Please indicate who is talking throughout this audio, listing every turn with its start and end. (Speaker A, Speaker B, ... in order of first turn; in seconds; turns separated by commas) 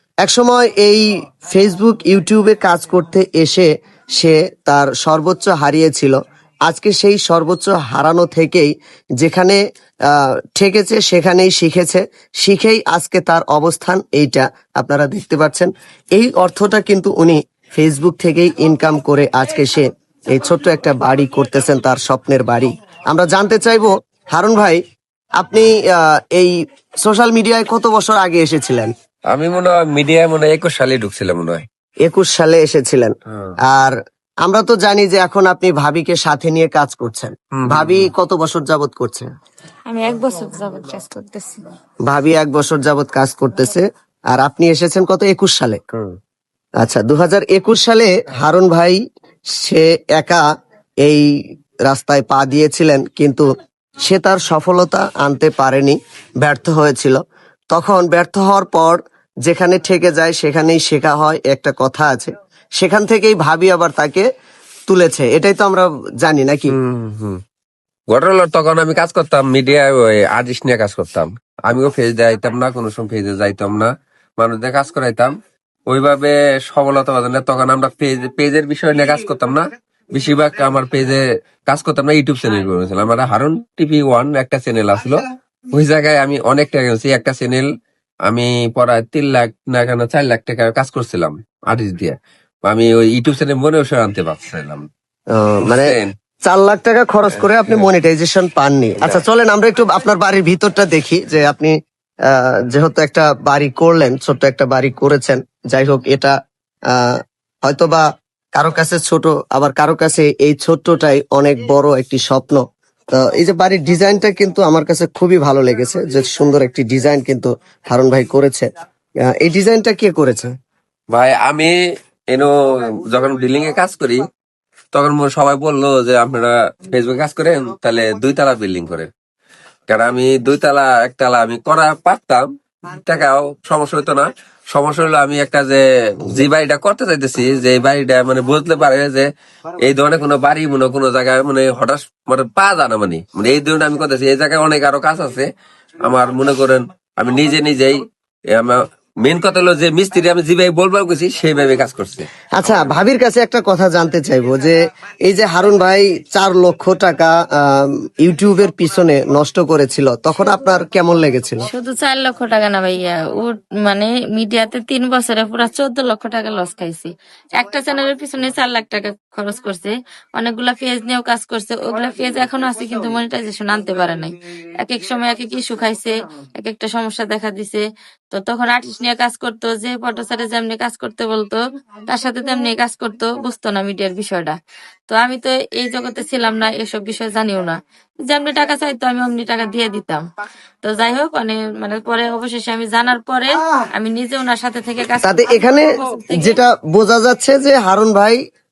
Speaker A: 0.2-6.2, Speaker A: 6.7-24.8, Speaker A: 25.4-28.9, Speaker B: 29.3-31.7, Speaker A: 32.0-39.3, Speaker B: 37.6-38.1, Speaker C: 39.9-41.7, Speaker A: 42.1-45.8, Speaker A: 46.8-49.0, Speaker A: 49.6-50.4, Speaker A: 51.9-53.5, Speaker A: 54.0-57.2, Speaker A: 57.7-64.3, Speaker A: 64.9-66.8, Speaker B: 66.8-67.4, Speaker B: 68.1-75.3, Speaker B: 75.9-87.7, Speaker B: 88.3-92.2, Speaker B: 92.7-94.8, Speaker A: 95.3-101.7, Speaker B: 95.7-96.1, Speaker A: 102.3-106.3, Speaker A: 106.9-108.0, Speaker A: 108.5-112.6, Speaker A: 113.1-118.7, Speaker A: 119.3-120.5, Speaker B: 121.1-121.8, Speaker B: 122.3-124.2, Speaker B: 124.9-129.1, Speaker B: 129.9-145.5, Speaker B: 146.0-152.9, Speaker A: 152.6-161.7, Speaker C: 161.7-184.6, Speaker C: 185.1-190.2, Speaker C: 190.8-196.6, Speaker A: 195.2-198.4